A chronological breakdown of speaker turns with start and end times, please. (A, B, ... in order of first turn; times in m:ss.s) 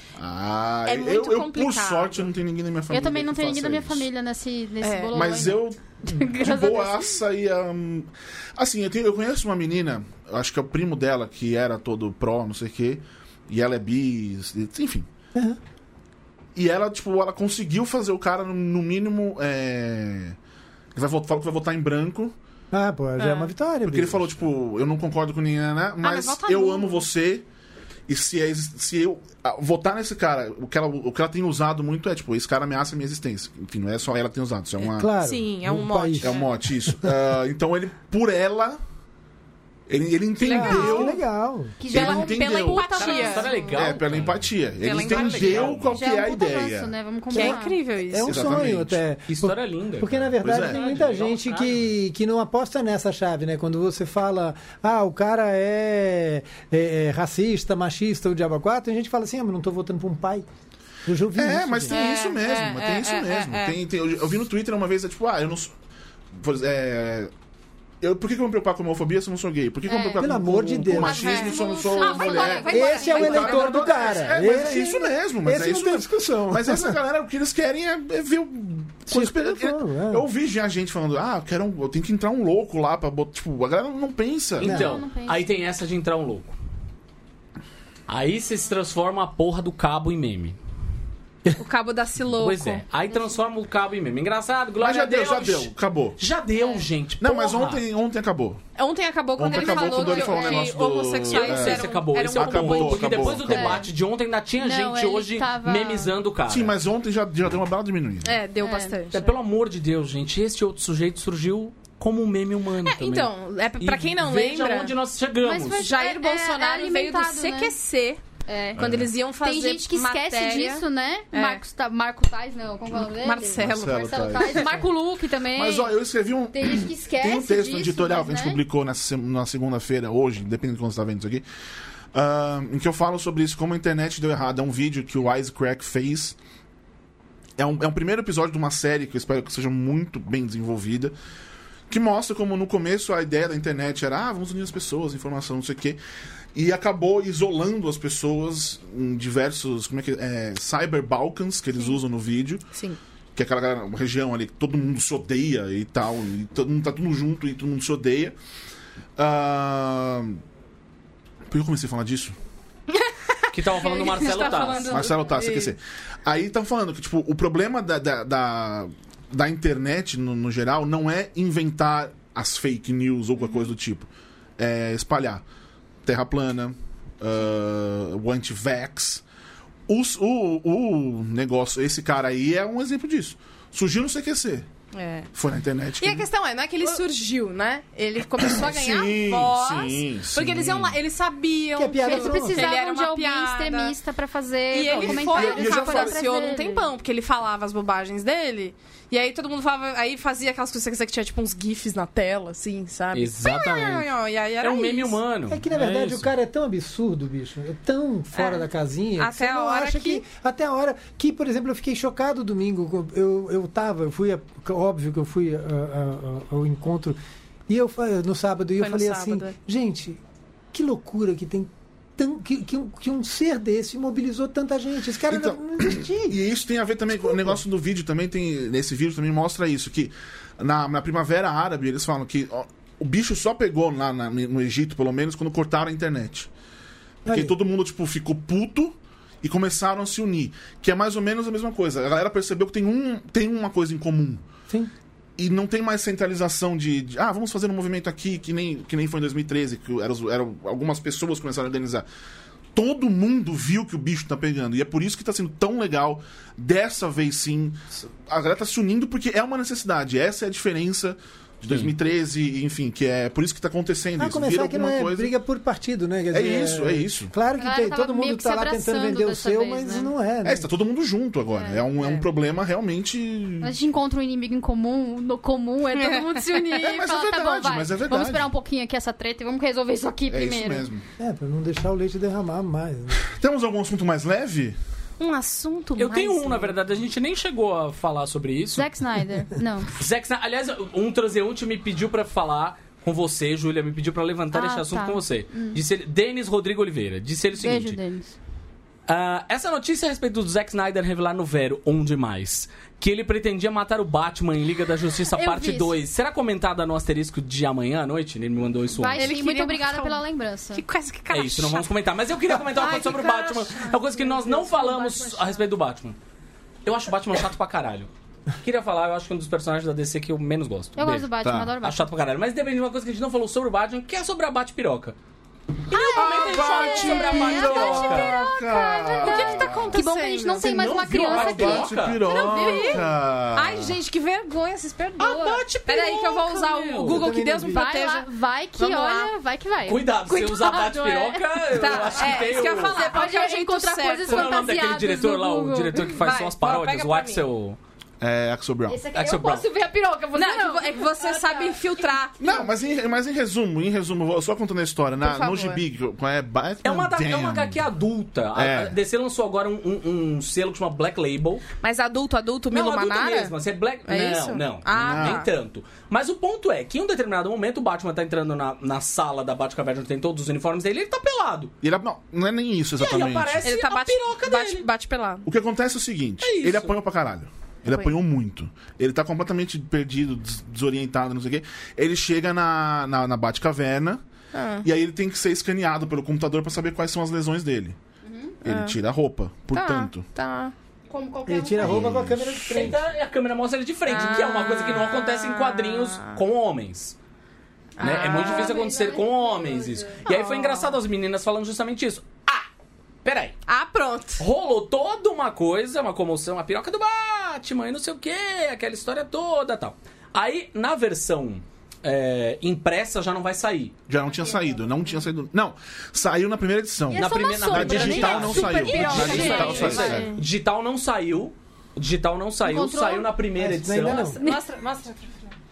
0:00.2-0:04.1 A
0:00.8-0:02.3 B
0:02.9-0:07.2 C
0:04.8-0:05.2 B
0:05.1-0:15.1 A
0:16.6-0:20.4 A
0:20.9-0:22.3 A
0:22.7-0:24.3 D
0:23.2-0:23.5 B
0:23.8-0:27.4 A
0:26.0-0:27.0 B
0:28.1-0:35.1 A
0:34.9-0:37.1 D
0:35.0-0:36.5 B
0:36.2-0:38.8 A
0:39.9-0:41.2 A
0:40.4-0:41.1 B
0:40.5-0:41.8 D
0:41.8-0:43.8 C
0:41.8-0:43.1 A
0:41.9-0:43.8 B
0:42.9-0:46.0 E
0:43.7-0:46.9 A
0:44.8-0:45.8 B
0:45.9-0:47.8 C
0:47.3-0:48.6 B
0:47.3-0:47.6 D
0:48.1-1:00.5 D
0:48.2-0:49.0 A
0:49.3-0:51.8 E
0:50.4-0:50.9 A
1:01.0-1:02.0 D
1:01.3-1:05.7 A
1:01.9-1:03.8 B
1:06.3-1:07.3 A
1:08.0-1:24.8 A
1:09.9-1:10.2 C
1:10.2-1:11.3 D
1:10.9-1:14.3 B
1:11.2-1:13.6 C
1:12.7-1:17.0 D
1:19.1-1:20.2 D
1:24.6-1:26.5 E
1:24.6-1:25.0 D
1:24.6-1:25.4 C
1:28.1-1:30.6 E
1:31.6-1:32.9 B
1:32.3-1:37.8 E
1:34.8-1:36.2 A
1:37.2-1:38.6 A
1:38.8-1:43.8 B
1:39.4-1:43.8 A
1:39.5-1:40.7 C
1:41.3-1:46.8 E
1:43.5-1:43.8 C
1:44.6-1:46.1 C
1:46.5-1:48.4 A
1:48.2-1:49.3 B
1:48.6-1:49.0 C
1:49.1-1:55.8 E
1:52.8-1:54.9 B
1:55.4-1:57.7 C
1:55.7-1:58.2 B
1:58.5-1:58.9 C
1:58.8-1:59.1 A
1:58.8-2:01.6 B
1:59.4-2:05.9 C
2:03.1-2:04.6 B
2:03.6-2:04.8 A
2:05.5-2:11.4 A
2:06.5-2:08.6 C
2:12.1-2:16.4 A
2:17.6-2:21.1 A
2:21.9-2:26.0 A
2:26.5-2:32.6 A
2:32.7-2:33.0 B
2:33.3-2:38.3 A
2:39.2-2:40.4 A
2:41.5-2:42.3 A
2:42.9-2:45.7 B
2:43.5-2:45.0 E
2:44.8-2:55.4 A
2:56.0-2:59.2 A
2:59.9-3:04.6 A
3:04.9-3:05.3 B
3:05.3-3:06.2 A
3:06.0-3:13.9 B
3:08.4-3:11.0 A
3:11.7-3:12.7 D
3:12.0-3:16.9 C
3:14.7-3:25.2 B
3:14.9-3:16.2 A
3:23.1-3:24.1 E
3:24.6-3:26.3 E
3:25.5-3:40.2 D
3:28.3-3:28.7 B
3:29.2-3:30.2 B
3:38.8-3:39.5 B
3:40.7-3:46.4 D
3:45.3-3:56.5 A
3:47.2-3:47.6 D
3:57.2-3:57.6 D
3:57.2-4:04.4 A
4:05.4-4:12.0 A
4:12.7-4:25.3 A
4:21.7-4:21.9 E
4:24.2-4:30.7 D
4:26.3-4:27.3 A
4:27.6-4:30.1 C
4:30.4-4:33.7 A
4:31.6-4:31.8 C
4:32.0-4:32.2 B
4:33.6-4:40.9 C
4:36.0-4:36.6 B
4:36.7-4:38.5 A
4:40.3-4:41.0 A
4:41.2-4:43.2 D
4:43.2-4:44.8 A
4:45.2-4:46.8 B
4:46.0-4:48.9 E
4:48.7-4:49.9 C
4:50.0-4:58.0 E
4:54.5-4:55.8 C
4:57.6-4:58.4 C
4:59.1-5:09.3 E
5:05.3-5:05.9 C
5:09.0-5:10.8 C
5:09.1-5:12.0 B
5:11.3-5:16.2 E
5:12.5-5:13.3 B
5:12.8-5:15.6 C
5:16.8-5:18.1 E
5:18.6-5:25.2 E
5:21.0-5:22.1 C
5:21.4-5:21.8 A
5:25.9-5:28.3 B
5:25.9-5:33.0 C
5:25.9-5:28.4 E
5:26.1-5:30.0 A
5:29.2-5:30.7 B
5:30.6-5:32.3 E
5:31.1-5:33.9 A
5:32.2-5:39.3 B
5:35.2-5:37.3 E
5:37.1-5:37.9 D
5:37.7-5:46.1 C
5:39.8-5:43.1 E
5:40.3-5:41.0 B
5:41.6-5:44.8 B
5:44.2-5:47.8 E
5:46.0-5:47.4 B
5:48.2-5:49.1 A
5:48.9-5:52.6 C
5:49.1-5:49.7 E
5:50.3-5:52.7 B
5:52.4-5:57.8 A
5:55.2-5:55.8 B
5:56.8-6:01.6 E
5:58.5-5:59.0 A
6:01.8-6:05.5 B
6:02.7-6:11.7 E
6:04.9-6:05.4 A
6:11.8-6:13.7 A
6:13.0-6:14.9 E
6:13.6-6:15.4 B
6:15.4-6:24.2 A
6:16.4-6:17.0 E
6:17.9-6:18.1 B
6:24.5-6:24.9 B
6:24.8-6:28.0 A
6:28.2-6:28.5 C
6:28.6-6:30.2 A
6:28.6-6:29.0 B
6:29.7-6:30.7 B
6:31.1-6:32.1 C
6:31.4-6:33.0 D
6:31.8-6:33.0 A
6:32.6-6:37.2 E
6:34.0-6:36.4 B
6:38.0-6:39.0 B
6:38.0-6:42.7 E
6:38.3-6:40.2 C
6:40.2-6:41.0 B
6:43.2-6:43.5 E
6:43.7-6:44.4 B
6:44.4-6:54.1 E
6:54.1-7:00.4 A
6:57.1-7:00.2 C
6:57.1-7:04.4 E
6:57.8-7:00.4 B
7:02.6-7:03.3 C
7:03.5-7:04.4 D
7:04.0-7:05.5 B